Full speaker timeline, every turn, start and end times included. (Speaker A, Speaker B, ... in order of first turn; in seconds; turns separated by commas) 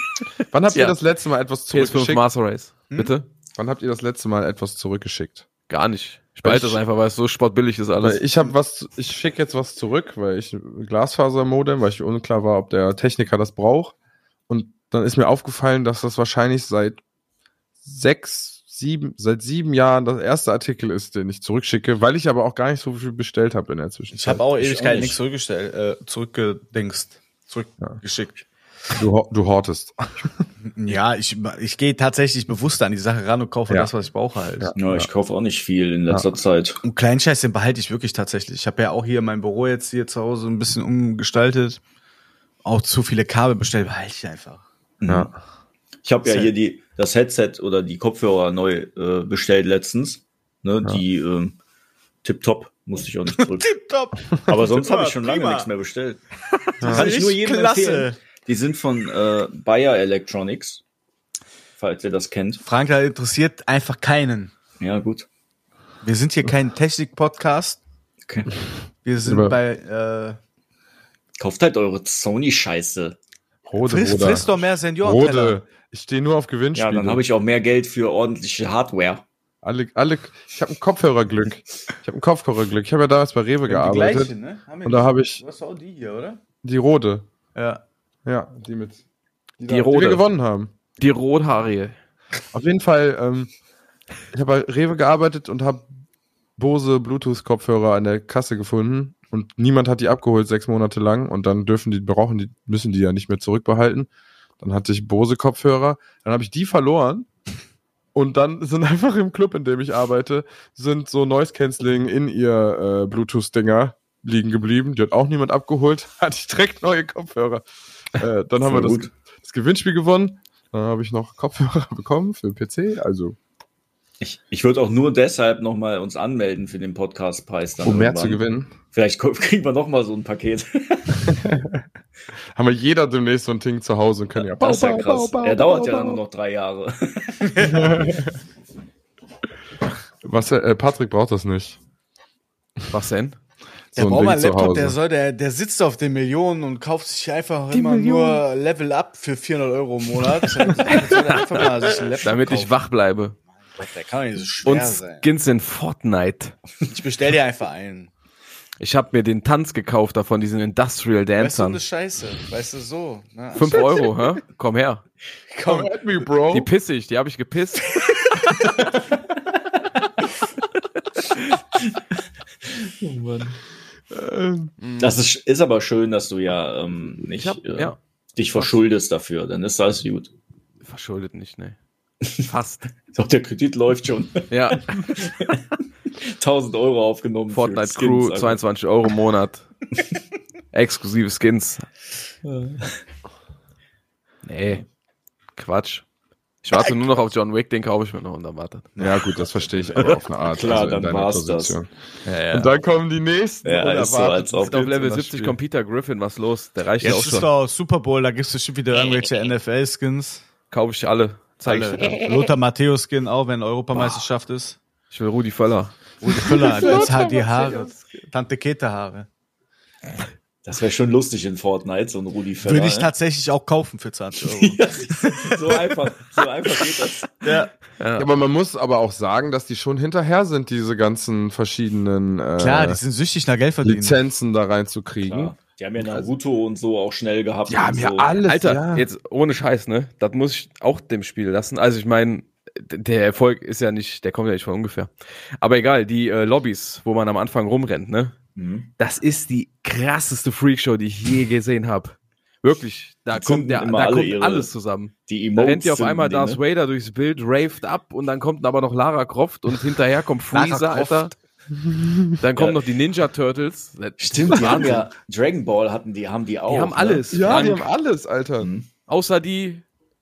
Speaker A: 0.5-2.2, Speaker B: 0.7-1.0, Speaker B: 1.7-3.2, Speaker A: 3.5-5.5, Speaker B: 5.7-8.2, Speaker A: 6.4-6.8, Speaker A: 8.0-13.9, Speaker A: 14.5-17.0, Speaker A: 17.8-24.4, Speaker C: 24.1-28.4, Speaker D: 24.6-25.2, Speaker A: 28.9-30.3, Speaker C: 30.6-34.7, Speaker A: 34.6-35.1, Speaker D: 34.8-36.8, Speaker C: 36.8-41.8, Speaker C: 42.6-44.6, Speaker D: 45.0-45.3, Speaker A: 45.1-45.3, Speaker D: 46.0-51.6, Speaker C: 46.2-46.5, Speaker D: 52.2-53.7, Speaker C: 53.6-55.7, Speaker D: 54.5-56.2, Speaker C: 56.8-58.2, Speaker A: 56.8-57.1, Speaker D: 56.8-60.8, Speaker D: 61.8-62.6, Speaker C: 62.6-64.5, Speaker D: 64.8-65.3, Speaker C: 66.0-67.8, Speaker D: 68.2-68.5, Speaker C: 69.0-70.4, Speaker A: 69.2-69.5, Speaker D: 71.4-73.2, Speaker A: 73.7-74.5, Speaker C: 73.8-75.6, Speaker A: 75.0-77.2, Speaker D: 76.7-79.2, Speaker A: 79.6-84.3, Speaker C: 83.7-86.4, Speaker A: 84.8-85.4, Speaker A: 86.6-87.2, Speaker C: 87.5-87.8, Speaker A: 88.2-89.0, Speaker A: 89.6-90.7, Speaker B: 89.7-90.2, Speaker B: 91.0-91.9, Speaker A: 92.5-93.5, Speaker A: 94.3-95.9, Speaker A: 96.6-104.1, Speaker A: 104.6-107.3, Speaker A: 108.1-123.4, Speaker D: 118.6-119.1, Speaker D: 124.2-128.4, Speaker A: 127.8-128.7, Speaker D: 128.9-131.3, Speaker A: 131.2-131.8, Speaker A: 132.5-136.2, Speaker D: 134.4-138.0, Speaker A: 137.6-138.3, Speaker A: 140.2-141.8, Speaker B: 142.9-143.3, Speaker A: 143.9-144.9, Speaker C: 143.9-152.7, Speaker B: 147.7-148.4, Speaker B: 150.9-151.6, Speaker B: 152.2-153.4, Speaker C: 153.8-155.2, Speaker B: 154.6-156.5, Speaker C: 156.8-158.1, Speaker B: 158.8-161.8, Speaker C: 161.4-164.2, Speaker B: 163.5-165.0, Speaker C: 165.5-165.9, Speaker A: 165.6-166.7, Speaker B: 166.5-168.0, Speaker D: 172.7-173.6, Speaker A: 174.1-174.7, Speaker B: 174.8-175.2, Speaker D: 175.0-180.3, Speaker B: 177.3-178.0, Speaker B: 178.5-178.8, Speaker B: 180.8-181.8, Speaker B: 182.4-182.8, Speaker D: 183.1-185.6, Speaker B: 184.5-185.1, Speaker D: 186.2-188.6, Speaker B: 187.5-189.7, Speaker B: 190.7-191.8, Speaker D: 192.4-193.0, Speaker B: 194.4-194.8, Speaker B: 195.6-196.0, Speaker B: 196.6-198.9, Speaker C: 199.0-199.3, Speaker A: 199.0-201.9, Speaker D: 200.4-201.8, Speaker B: 202.2-202.7, Speaker A: 202.5-205.6, Speaker D: 203.6-204.9, Speaker B: 204.6-207.5, Speaker C: 207.0-210.4, Speaker B: 210.7-212.2, Speaker C: 211.6-214.8, Speaker B: 215.1-218.0, Speaker C: 216.2-219.3, Speaker A: 216.6-217.2, Speaker D: 220.6-223.1, Speaker C: 222.6-225.7, Speaker D: 224.6-227.6, Speaker C: 227.4-227.7, Speaker B: 228.0-228.3, Speaker A: 228.2-233.0, Speaker C: 232.6-234.2, Speaker A: 233.8-236.3, Speaker D: 235.2-238.3, Speaker A: 237.7-239.1, Speaker B: 238.4-248.3, Speaker D: 248.6-248.9, Speaker B: 249.0-261.3, Speaker D: 253.3-254.7, Speaker D: 255.3-256.6, Speaker C: 260.5-261.3, Speaker A: 261.8-262.4, Speaker B: 262.4-265.1, Speaker D: 264.2-267.6, Speaker B: 266.7-267.9, Speaker A: 267.3-268.7, Speaker D: 268.6-268.9, Speaker B: 269.1-269.8